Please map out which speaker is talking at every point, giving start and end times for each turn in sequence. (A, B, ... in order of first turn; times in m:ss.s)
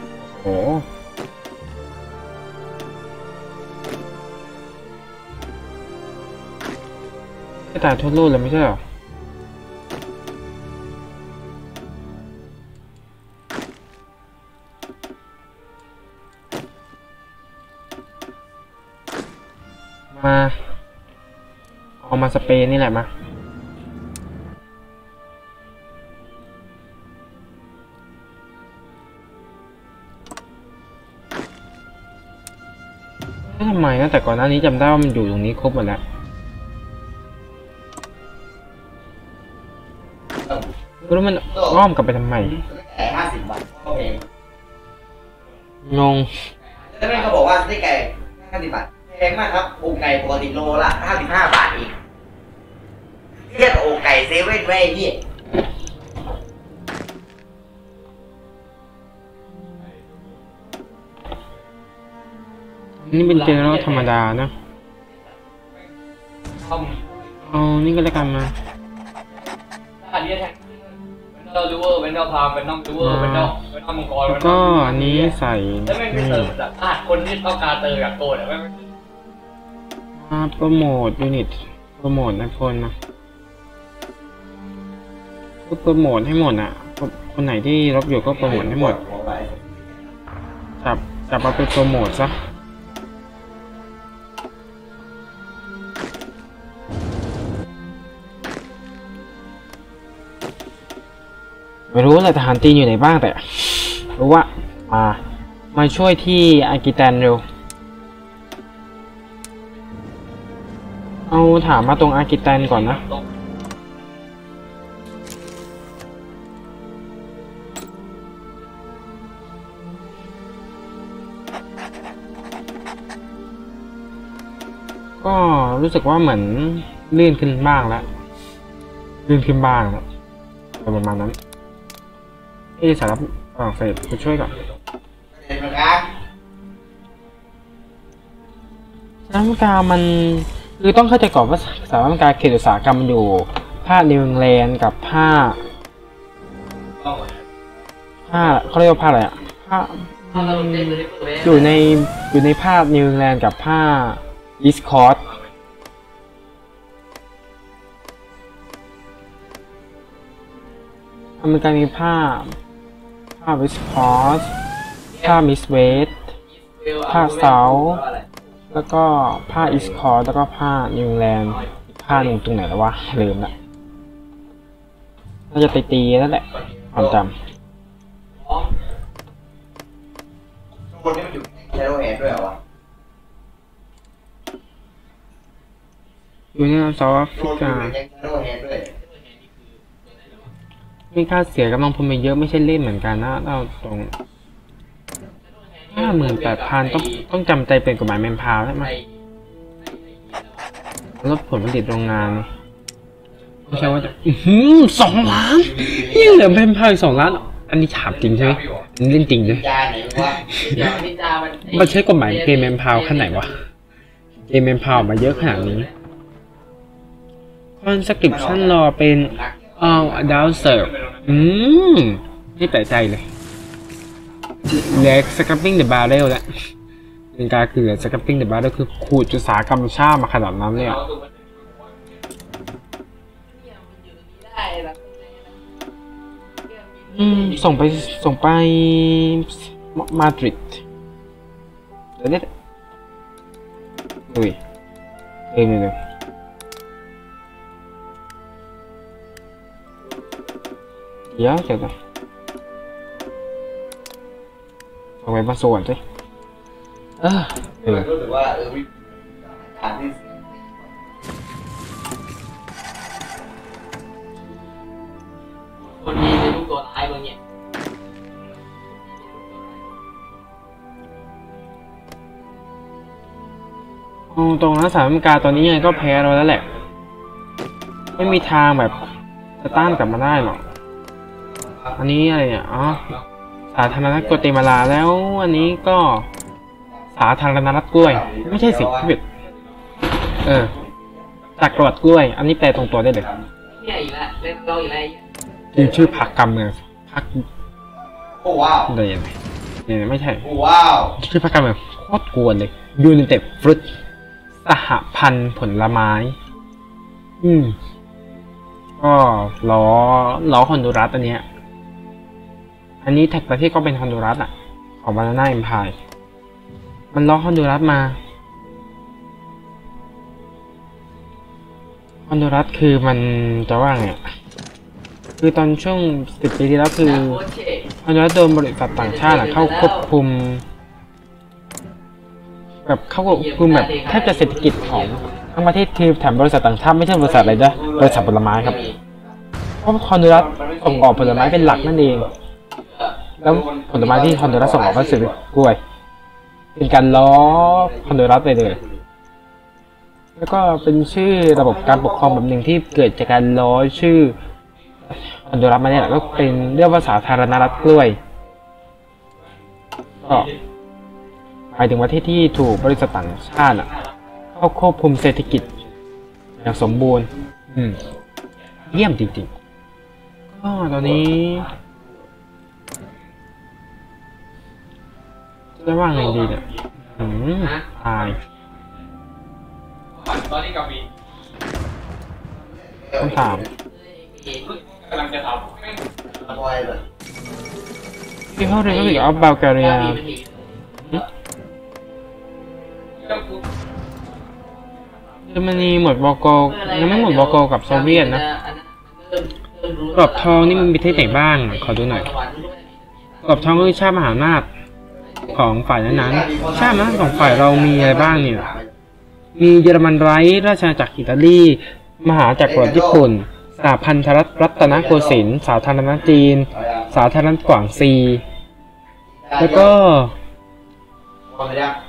0:00.2-0:00.8 A
0:07.7-0:08.8 A
0:20.1-0:20.6 A
0:22.0-0:23.1 A
0:33.4-0:36.0 A
0:40.4-0:40.6 B
0:41.0-0:42.6 A
0:42.6-0:44.2 B
0:45.8-0:46.5 A
0:46.6-0:47.3 C
0:46.9-0:52.0 B
0:53.4-0:55.2 B
1:03.0-1:04.5 A
1:03.2-1:04.1 C
1:06.6-1:07.1 C
1:07.4-1:08.5 A
1:10.0-1:15.4 C
1:13.0-1:13.5 A
1:14.2-1:16.5 A
1:15.9-1:18.8 C
1:20.2-1:22.9 A
1:25.6-1:29.0 A
1:28.2-1:30.1 B
1:30.8-1:32.4 A
1:41.9-1:45.2 A
1:45.7-1:47.4 A
1:51.3-1:53.0 A
1:52.8-1:53.2 C
2:05.2-2:08.1 A
2:09.2-2:10.0 A
2:10.7-2:11.4 A
2:12.8-2:14.6 A
2:15.3-2:16.1 B
2:19.3-2:25.6 A
2:28.2-2:35.2 A
2:30.3-2:31.7 C
2:41.4-2:42.6 A
2:43.4-2:44.5 A
2:45.2-2:46.3 A
2:46.5-2:48.2 C
2:47.0-2:48.0 A
2:48.7-2:53.5 A
2:49.6-2:49.9 B
2:55.5-2:57.3 A
2:56.5-2:57.2 B
2:58.4-2:58.7 C
3:00.9-3:02.6 B
3:06.5-3:08.0 A
3:07.4-3:08.9 B
3:09.0-3:10.5 C
3:11.1-3:14.1 A
3:15.4-3:17.2 C
3:15.9-3:18.9 A
3:18.8-3:19.1 C
3:19.8-3:20.7 C
3:21.2-3:22.5 A
3:23.6-3:24.1 C
3:23.7-3:29.6 A
3:25.8-3:26.4 B
3:28.1-3:28.8 C
3:29.4-3:30.5 B
3:30.2-3:31.0 A
3:30.6-3:33.6 C
3:31.6-3:33.5 A
3:34.5-3:35.9 A
3:35.2-3:35.9 C
3:37.8-3:43.3 A
3:38.2-3:40.4 B
3:44.6-3:46.7 A
3:47.3-3:51.0 A
3:50.8-3:51.3 C
3:53.5-3:55.6 C
3:56.6-3:58.1 C
3:57.1-4:00.8 A
4:02.2-4:02.5 A
4:04.3-4:04.6 A
4:05.5-4:06.0 A
4:11.3-4:11.9 A
4:15.2-4:16.0 A
4:17.2-4:18.1 A
4:17.8-4:20.9 B
4:25.8-4:27.4 C
4:28.9-4:29.8 C
4:34.3-4:36.7 A
4:38.1-4:39.0 A
4:39.6-4:40.6 A
4:39.7-4:40.0 B
4:41.5-4:42.0 B
4:42.0-4:43.1 A
4:43.7-4:46.3 A
4:44.0-4:44.5 B
4:47.1-4:49.2 A
4:48.0-4:49.1 B
4:50.2-4:50.7 A
4:51.6-4:53.3 A
4:53.7-4:55.2 C
4:55.7-4:57.5 A
4:58.3-4:58.9 B
4:58.9-4:59.3 A
4:59.8-5:00.4 A
5:00.4-5:01.1 B
5:01.2-5:03.9 A
5:04.6-5:06.4 A
5:07.4-5:07.8 A
5:09.0-5:11.4 A
5:13.0-5:16.0 A
5:17.1-5:18.2 A
5:22.3-5:24.2 A
5:25.4-5:27.4 A
5:27.0-5:27.9 C
5:28.0-5:30.6 A
5:28.9-5:30.0 C
5:32.8-5:38.8 A
5:33.2-5:35.6 C
5:37.2-5:39.2 B
5:37.9-5:39.0 C
5:39.8-5:42.3 A
5:40.5-5:42.0 C
5:41.1-5:41.7 B
5:42.7-5:43.2 C
5:43.4-5:45.8 A
5:43.4-5:45.4 B
5:46.7-5:48.8 A
5:47.5-5:48.9 B
5:50.4-5:54.4 A
5:51.5-5:52.4 B
5:55.1-5:58.2 A
5:56.1-5:57.6 C
6:00.2-6:00.5 A
6:01.7-6:03.9 A
6:04.5-6:05.8 A
6:06.6-6:08.0 A
6:08.9-6:09.5 A
6:10.5-6:11.7 A
6:15.8-6:18.4 A
6:20.2-6:21.0 C
6:22.5-6:23.7 B
6:23.2-6:23.7 A
6:23.9-6:25.8 C
6:26.3-6:27.0 B
6:28.5-6:30.2 A
6:28.7-6:31.2 C
6:33.2-6:33.6 C
6:35.5-6:38.4 A
6:36.6-6:43.9 C
6:40.1-6:42.3 A
6:43.4-6:44.7 A
6:45.1-6:45.5 B
6:45.2-6:45.5 C
6:45.5-6:48.7 A
6:46.0-6:48.9 B
6:49.6-6:58.4 A
6:52.6-6:53.2 B
6:54.8-6:55.4 B
6:56.7-6:57.1 B
6:59.3-6:59.9 B
6:59.6-7:00.3 A
7:01.5-7:02.0 B